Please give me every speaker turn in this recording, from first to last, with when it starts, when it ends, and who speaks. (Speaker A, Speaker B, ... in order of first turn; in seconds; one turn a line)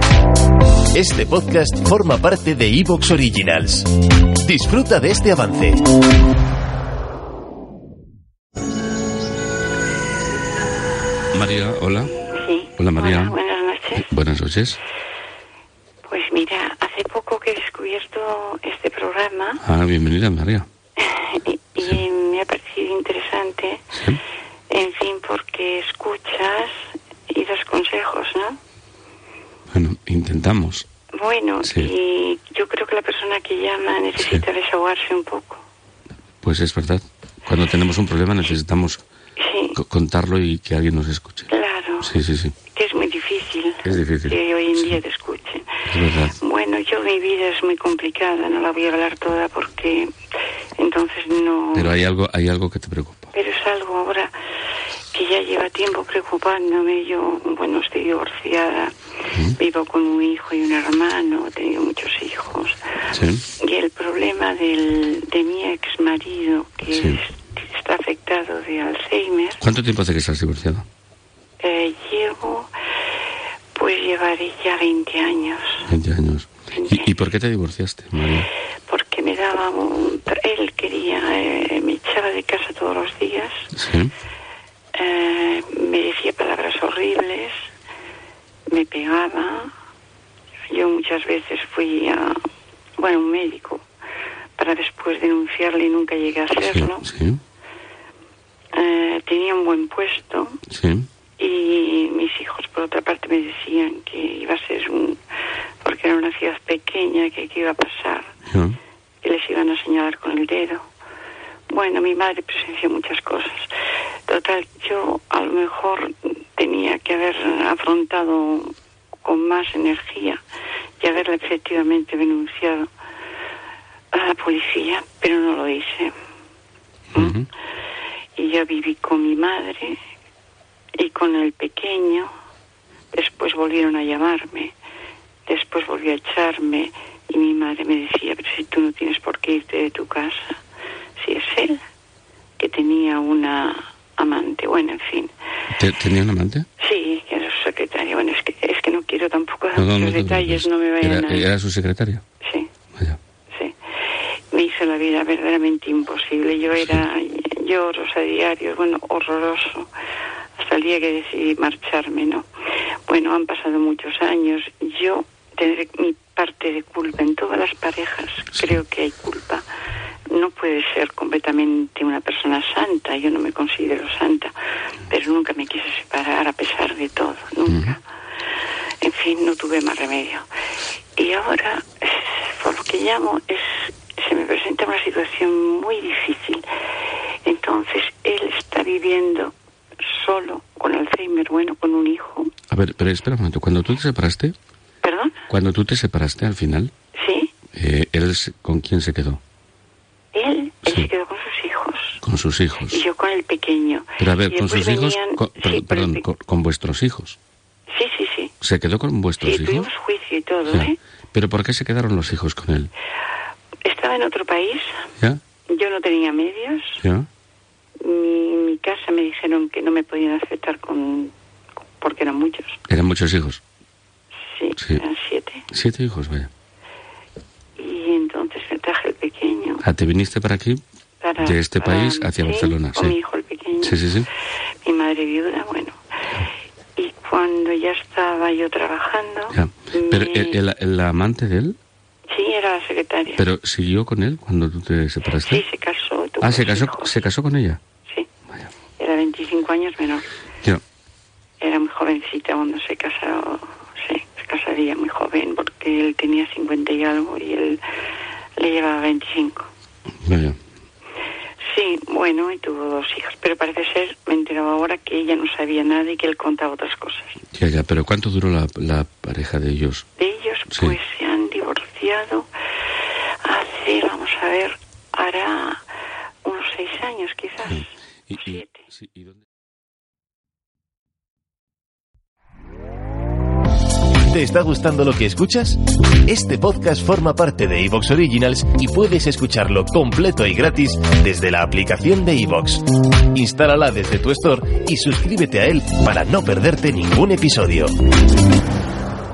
Speaker A: 0.9-3.9
Speaker A: 4.4-5.8
Speaker B: 11.3-12.2
Speaker C: 12.3-14.1
Speaker B: 12.8-13.4
Speaker B: 13.9-14.8
Speaker C: 16.0-19.6
Speaker B: 19.6-20.7
Speaker C: 21.0-23.9
Speaker B: 23.9-24.2
Speaker C: 24.7-28.6
Speaker B: 29.7-30.9
Speaker C: 31.1-35.6
Speaker B: 31.6-31.9
Speaker B: 34.2-34.4
Speaker B: 36.4-39.0
Speaker C: 39.4-39.8
Speaker B: 39.8-41.5
Speaker C: 41.5-42.1
Speaker B: 42.0-42.5
Speaker C: 42.7-45.8
Speaker B: 43.8-45.0
Speaker B: 45.9-46.4
Speaker C: 46.4-50.1
Speaker C: 50.8-52.0
Speaker B: 51.8-53.3
Speaker C: 53.3-54.3
Speaker C: 55.1-58.9
Speaker C: 59.6-62.8
Speaker B: 63.1-63.5
Speaker C: 63.6-69.6
Speaker B: 66.9-67.2
Speaker B: 69.6-70.8
Speaker C: 71.6-72.7
Speaker C: 73.8-75.9
Speaker B: 75.9-78.5
Speaker C: 76.7-77.0
Speaker C: 78.9-83.7
Speaker B: 83.8-84.1
Speaker C: 84.9-87.7
Speaker C: 88.7-89.7
Speaker C: 90.7-92.5
Speaker C: 93.0-93.8
Speaker C: 94.6-97.1
Speaker B: 96.6-97.4
Speaker C: 98.7-100.6
Speaker B: 100.7-101.1
Speaker C: 101.4-105.2
Speaker C: 105.8-108.3
Speaker B: 108.5-108.8
Speaker C: 109.2-110.8
Speaker C: 111.7-113.7
Speaker C: 114.3-118.7
Speaker C: 119.2-120.4
Speaker C: 121.0-122.9
Speaker C: 124.1-126.1
Speaker B: 127.1-127.5
Speaker C: 128.3-130.0
Speaker C: 130.9-132.3
Speaker C: 133.1-134.7
Speaker C: 135.5-140.6
Speaker C: 141.2-141.8
Speaker C: 142.6-145.3
Speaker B: 145.8-146.7
Speaker C: 146.8-151.5
Speaker B: 149.8-152.2
Speaker C: 152.4-152.7
Speaker C: 154.5-159.9
Speaker B: 156.8-157.0
Speaker C: 160.6-162.4
Speaker C: 163.1-169.6
Speaker C: 170.3-174.5
Speaker C: 175.1-178.0
Speaker B: 177.7-177.9
Speaker C: 179.0-180.4
Speaker C: 181.2-186.6
Speaker C: 187.4-189.5
Speaker C: 190.0-192.5
Speaker B: 192.7-194.5
Speaker C: 195.0-195.4
Speaker B: 195.5-196.9
Speaker C: 197.1-197.5
Speaker B: 197.7-199.4
Speaker C: 200.3-202.2
Speaker B: 202.2-203.0
Speaker C: 202.9-206.2
Speaker B: 204.2-207.4
Speaker C: 207.9-208.5
Speaker B: 208.6-209.9
Speaker C: 209.4-210.9
Speaker B: 210.7-212.9
Speaker C: 213.8-215.0
Speaker C: 215.7-217.0
Speaker C: 218.0-221.3
Speaker C: 222.0-222.8
Speaker B: 222.9-223.6
Speaker C: 224.5-225.7
Speaker B: 224.8-225.0
Speaker B: 225.7-226.5
Speaker C: 227.8-229.8
Speaker B: 229.8-230.8
Speaker C: 231.2-234.0
Speaker B: 231.4-233.2
Speaker B: 233.8-234.3
Speaker C: 234.8-235.9
Speaker C: 237.0-240.6
Speaker B: 239.5-241.8
Speaker C: 242.3-243.4
Speaker B: 243.4-245.6
Speaker C: 245.4-247.2
Speaker B: 246.4-247.8
Speaker C: 249.0-250.2
Speaker C: 251.6-257.8
Speaker C: 258.6-259.7
Speaker B: 260.2-260.6
Speaker C: 261.6-267.4
Speaker B: 267.5-270.1
Speaker C: 270.2-272.5
Speaker B: 270.7-271.0
Speaker C: 273.4-275.8
Speaker C: 276.4-278.8
Speaker B: 277.7-279.4
Speaker A: 284.3-297.9